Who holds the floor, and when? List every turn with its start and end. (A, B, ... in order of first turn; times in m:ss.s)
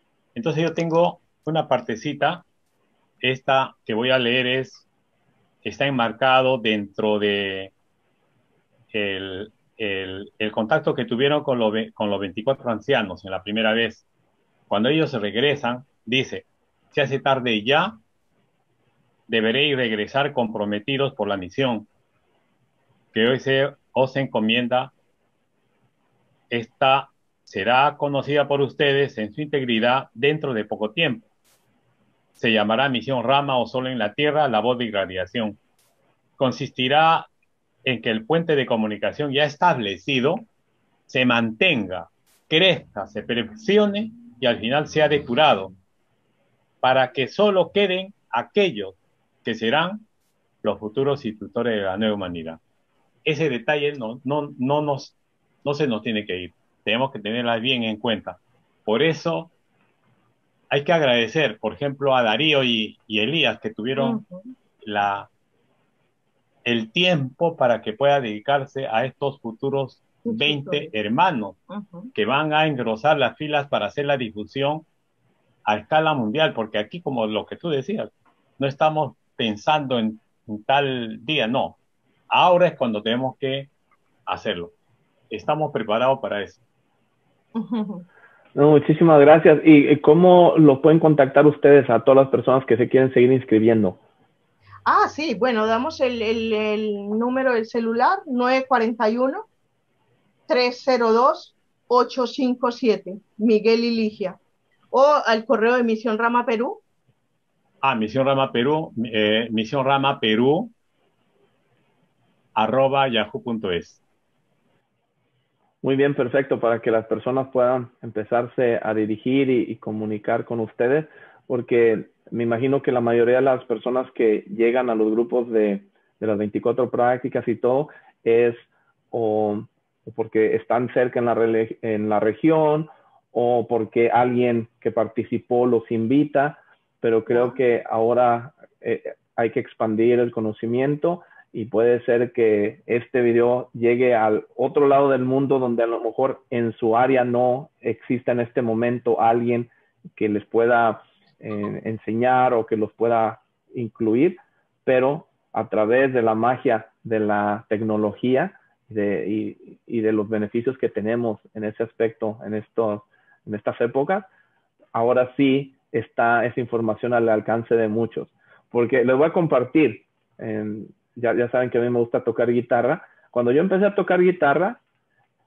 0:00.4-0:02.4 A
0:03.2-0:04.9 A
0:05.6-0:07.7 A
0:08.9-0:14.0 A
0:14.7-0:18.0 A
0:19.3-0:21.9 A
0:23.1-0:24.9 A
0:26.5-0:31.2 A
0:32.4-0:35.6 A
0:36.4-0:37.3 A
0:37.8-0:40.5 A
0:41.1-0:45.7 A
0:46.8-0:50.0 A
0:50.6-0:52.6 A
0:53.2-0:59.5 A
1:00.7-1:04.2 A
1:04.0-1:04.5 B
1:04.8-1:05.3 A
1:06.6-1:11.6 A
1:10.3-1:10.9 B
1:11.7-1:12.1 B
1:12.1-1:14.9 A
1:15.6-1:21.8 A
1:22.3-1:23.7 A
1:24.3-1:24.7 A
1:25.3-1:26.6 A
1:27.6-1:28.0 B
1:28.6-1:34.0 C
1:34.9-1:39.4 B
1:40.5-1:44.4 B
1:44.9-1:46.8 B
1:47.8-1:50.7 A
1:52.6-1:54.0 A
1:55.8-2:44.3 C
2:17.3-2:17.6 B
2:44.9-2:54.8 C